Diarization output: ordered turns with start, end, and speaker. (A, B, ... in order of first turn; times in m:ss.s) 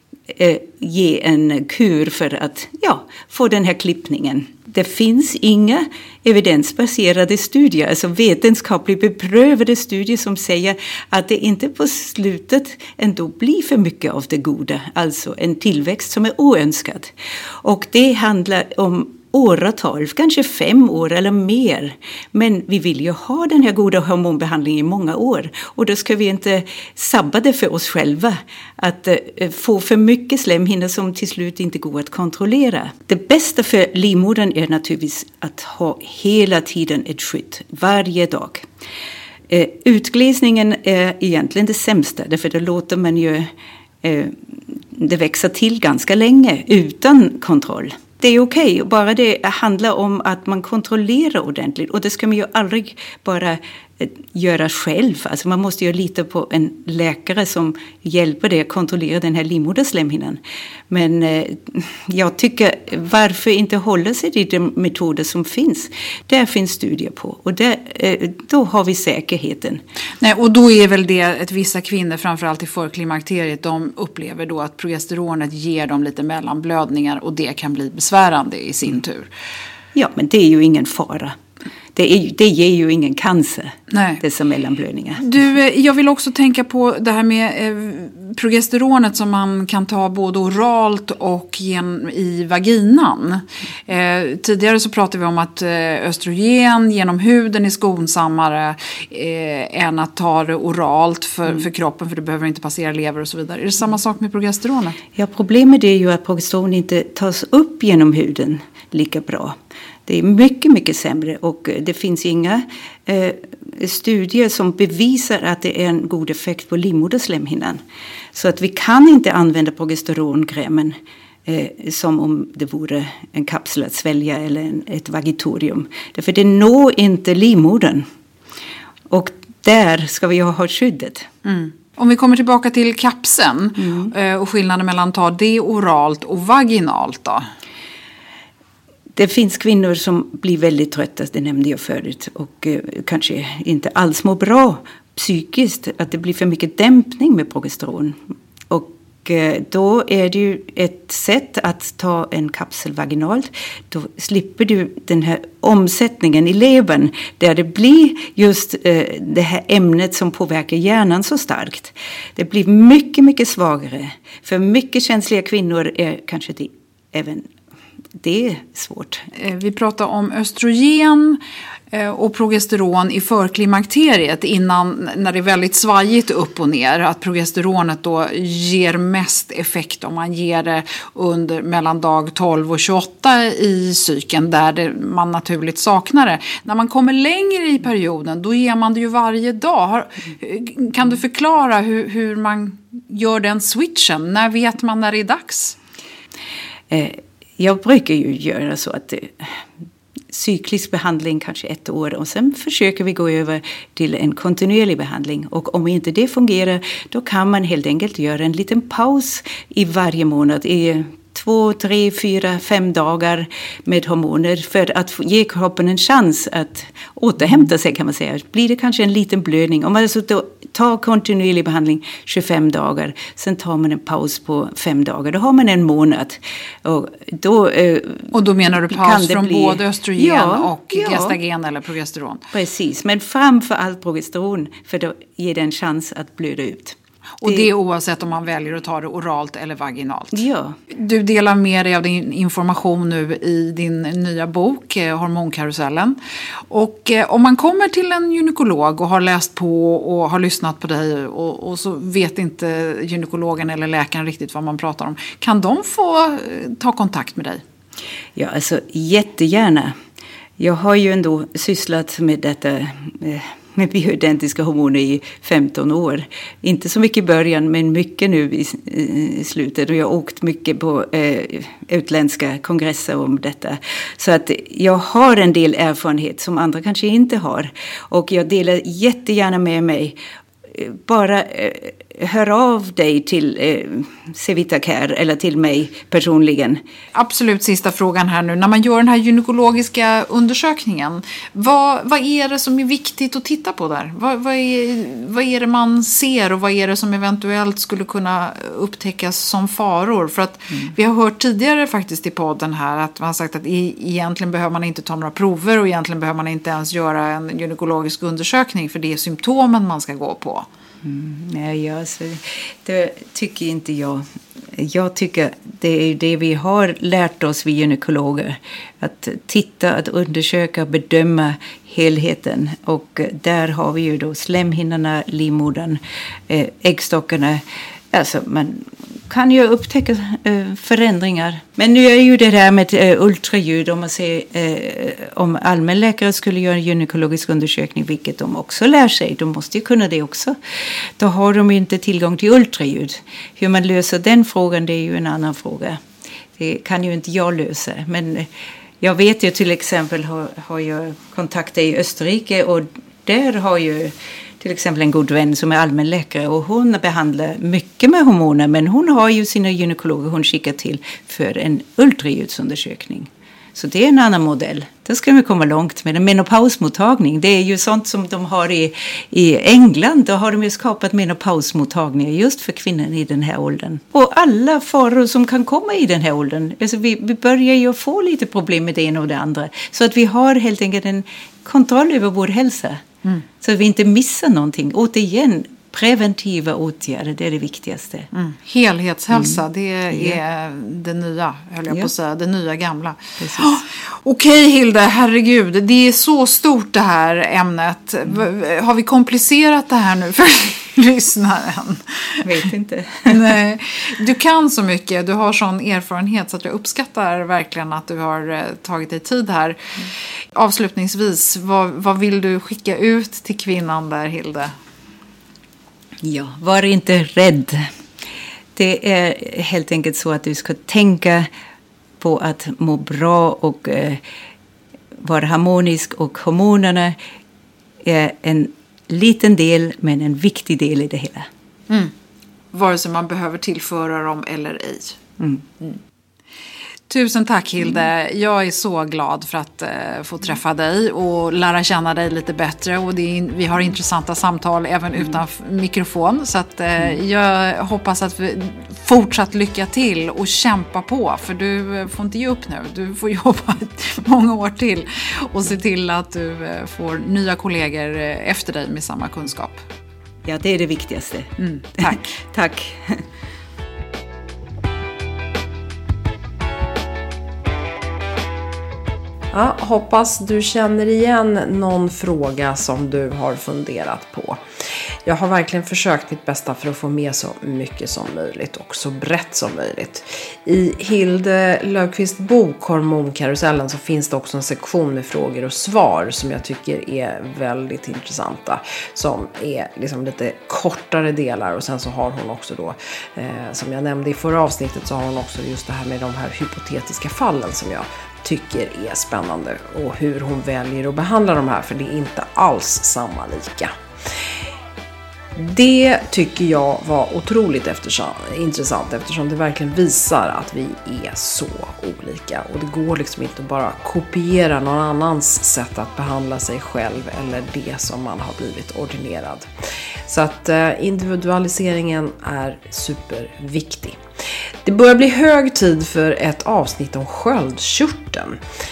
0:00.3-0:17.1 A
0:17.6-0:38.7 A
0:39.5-0:43.5 A
0:44.0-1:09.8 A
1:10.2-1:19.3 B
1:20.0-1:21.4 A
1:22.0-1:25.3 A
1:23.9-1:24.2 B
1:25.2-1:45.0 B
1:45.2-1:49.6 A
1:50.1-1:57.8 A
1:58.3-2:08.1 A
2:09.1-2:11.3 A
2:11.4-2:17.4 B
2:13.8-2:14.1 A
2:19.2-2:28.2 A
2:28.7-2:47.5 A
2:48.2-2:49.3 A
2:49.4-2:51.4 B
2:51.9-3:15.8 B
3:16.9-3:19.7 A
3:20.3-3:51.4 A
3:48.3-3:52.4 B
3:52.5-3:57.7 A
3:57.4-4:06.2 B
4:00.3-4:00.8 A
4:06.7-4:17.6 B
4:18.4-4:20.0 A
4:20.6-4:40.2 A
4:40.7-4:46.8 A
4:47.2-5:10.7 B
5:11.0-5:40.6 A
5:41.2-5:46.0 A
5:46.6-5:48.5 A
5:49.0-6:23.1 A
6:23.6-6:28.3 A
6:28.3-6:42.7 B
6:29.3-6:29.6 A
6:30.1-6:30.4 A
6:33.4-6:33.8 A
6:42.4-6:43.5 A
6:43.3-6:54.7 B
6:56.2-6:57.9 A
6:58.8-7:01.5 A
7:02.2-7:04.2 A
7:05.2-7:07.2 A
7:08.0-7:11.5 A
7:12.7-7:15.2 B
7:17.1-7:39.8 B
7:40.4-7:43.2 A
7:41.6-7:42.3 B
7:49.5-7:54.6 C
7:55.2-8:23.9 C
8:25.6-8:39.7 C
8:40.3-8:44.2 C
8:44.8-8:48.6 C